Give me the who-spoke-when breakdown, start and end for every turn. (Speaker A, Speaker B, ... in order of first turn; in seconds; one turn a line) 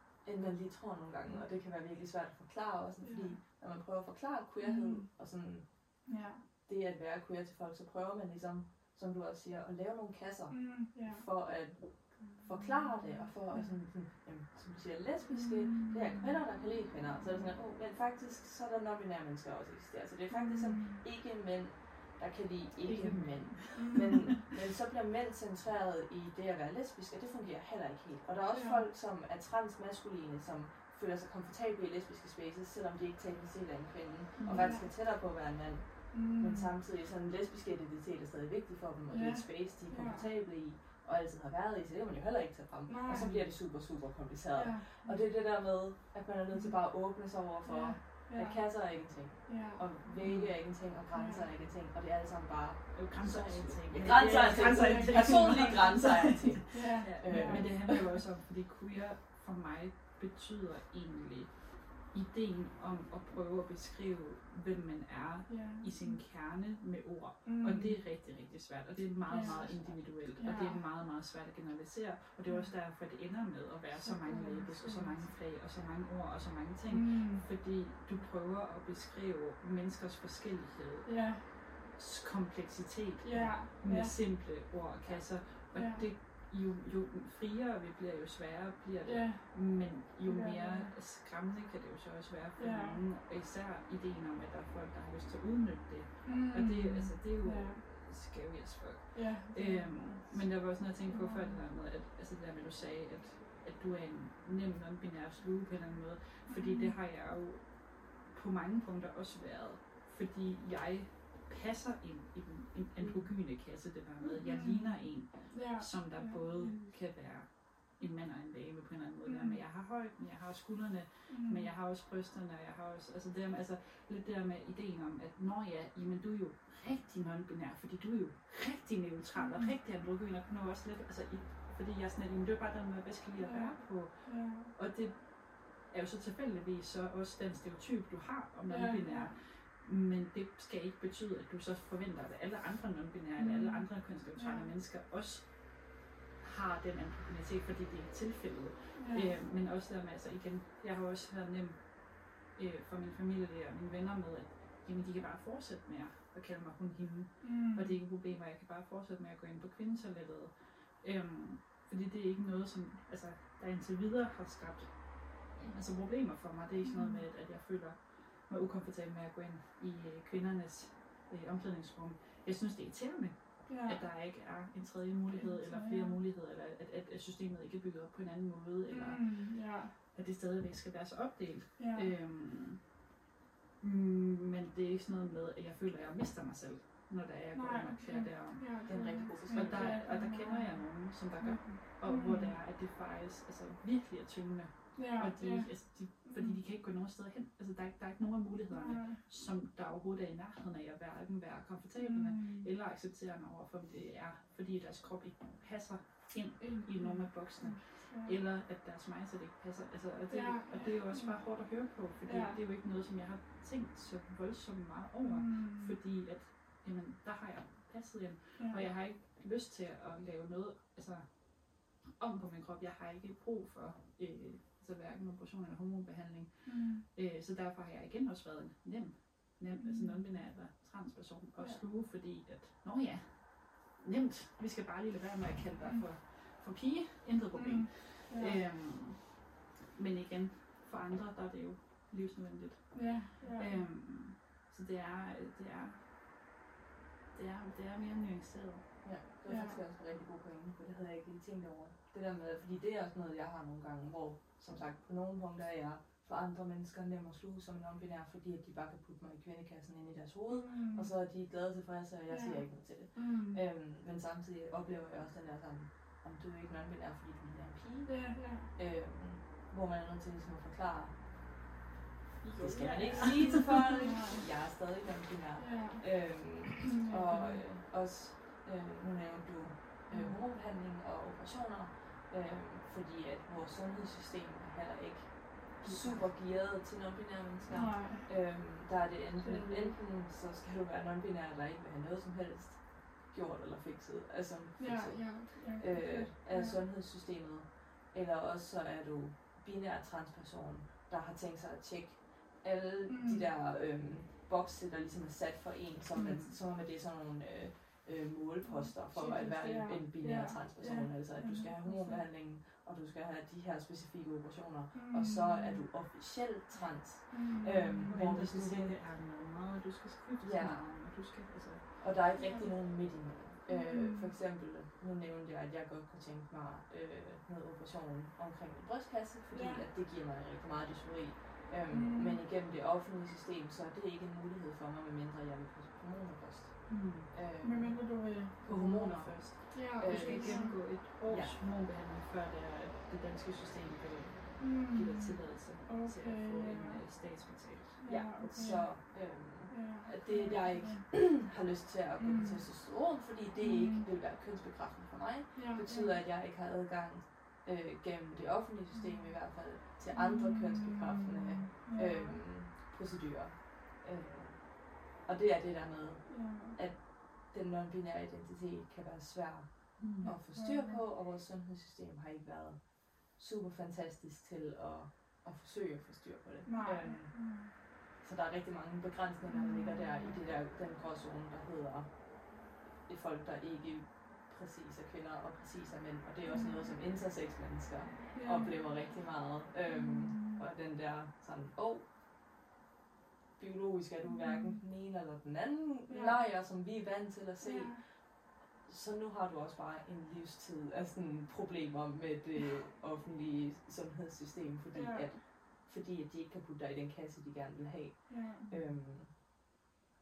Speaker A: 0.2-6.1
Speaker B: 3.0-3.4
Speaker B: 4.6-5.1
Speaker B: 6.0-6.4
Speaker A: 6.7-58.0
Speaker B: 10.5-11.4
Speaker B: 12.2-13.7
Speaker B: 15.3-16.3
Speaker B: 20.3-21.0
Speaker C: 22.8-24.2
Speaker B: 23.7-24.3
Speaker B: 28.5-28.9
Speaker C: 34.4-34.7
Speaker B: 34.5-34.9
Speaker B: 36.1-36.7
Speaker B: 39.1-40.3
Speaker B: 42.9-44.0
Speaker B: 44.5-45.2
Speaker B: 47.6-50.0
Speaker C: 50.2-50.6
Speaker B: 50.9-51.5
Speaker C: 52.9-145.8
Speaker B: 54.0-57.9
Speaker B: 65.5-66.2
Speaker B: 67.4-68.0
Speaker B: 69.3-69.6
Speaker A: 69.3-70.0
Speaker B: 70.2-70.8
Speaker B: 72.5-72.8
Speaker B: 74.0-75.3
Speaker B: 76.9-77.5
Speaker B: 81.0-81.5
Speaker B: 83.2-84.7
Speaker A: 85.0-85.3
Speaker B: 85.7-86.1
Speaker B: 89.0-90.9
Speaker B: 92.6-93.0
Speaker B: 96.2-97.8
Speaker B: 99.1-101.7
Speaker B: 106.5-107.0
Speaker B: 114.2-116.9
Speaker B: 119.2-119.6
Speaker B: 121.3-121.7
Speaker B: 129.3-129.7
Speaker B: 133.4-134.7
Speaker B: 138.7-139.3
Speaker B: 143.4-144.7
Speaker C: 146.4-179.5
Speaker B: 148.9-149.3
Speaker B: 157.4-157.9
Speaker B: 166.8-167.2
Speaker B: 173.7-174.0
Speaker B: 175.3-176.2
Speaker B: 178.9-179.9
Speaker C: 180.1-182.9
Speaker B: 181.8-182.1
Speaker C: 183.8-246.0
Speaker B: 187.5-192.6
Speaker A: 188.8-190.1
Speaker B: 194.9-196.6
Speaker B: 198.7-199.2
Speaker B: 202.0-202.7
Speaker B: 206.6-208.4
Speaker B: 210.3-212.6
Speaker B: 215.2-216.0
Speaker B: 218.6-218.8
Speaker B: 226.6-227.0
Speaker B: 229.8-230.4
Speaker B: 231.6-231.8
Speaker B: 237.5-238.6
Speaker B: 242.9-243.8
Speaker C: 247.3-248.9
Speaker A: 249.0-271.2
Speaker B: 249.5-249.8
Speaker B: 260.5-261.1
Speaker B: 262.3-263.6
Speaker B: 268.1-268.7
Speaker C: 272.4-273.8
Speaker A: 272.5-319.0
Speaker B: 273.2-274.6
Speaker B: 275.6-277.6
Speaker B: 280.1-280.4
Speaker C: 285.8-286.2
Speaker B: 287.7-288.5
Speaker B: 289.4-289.9
Speaker B: 294.8-296.8
Speaker B: 303.1-303.4
Speaker C: 306.1-306.5
Speaker B: 308.6-312.2
Speaker B: 314.9-315.8
Speaker B: 317.3-318.2
Speaker C: 318.0-321.9
Speaker A: 320.4-320.9
Speaker A: 322.0-341.6
Speaker B: 322.4-322.7
Speaker B: 323.7-324.3
Speaker B: 329.5-329.8
Speaker B: 331.9-332.4
Speaker C: 336.9-337.3
Speaker B: 337.6-338.6
Speaker C: 338.6-348.0
Speaker B: 339.7-340.8
Speaker B: 344.6-347.1
Speaker B: 348.0-351.4
Speaker A: 348.0-392.1
Speaker B: 352.2-352.8
Speaker B: 353.6-354.1
Speaker B: 355.5-356.2
Speaker B: 358.9-359.6
Speaker B: 360.1-362.4
Speaker B: 366.3-366.8
Speaker C: 370.0-370.4
Speaker B: 370.2-371.0
Speaker B: 376.6-377.7
Speaker B: 379.5-380.4
Speaker B: 386.5-386.9
Speaker B: 388.3-388.8
Speaker B: 389.8-390.6
Speaker A: 393.6-409.3
Speaker B: 394.2-394.8
Speaker B: 396.1-396.4
Speaker B: 397.6-398.0
Speaker B: 404.9-405.4
Speaker B: 408.3-408.8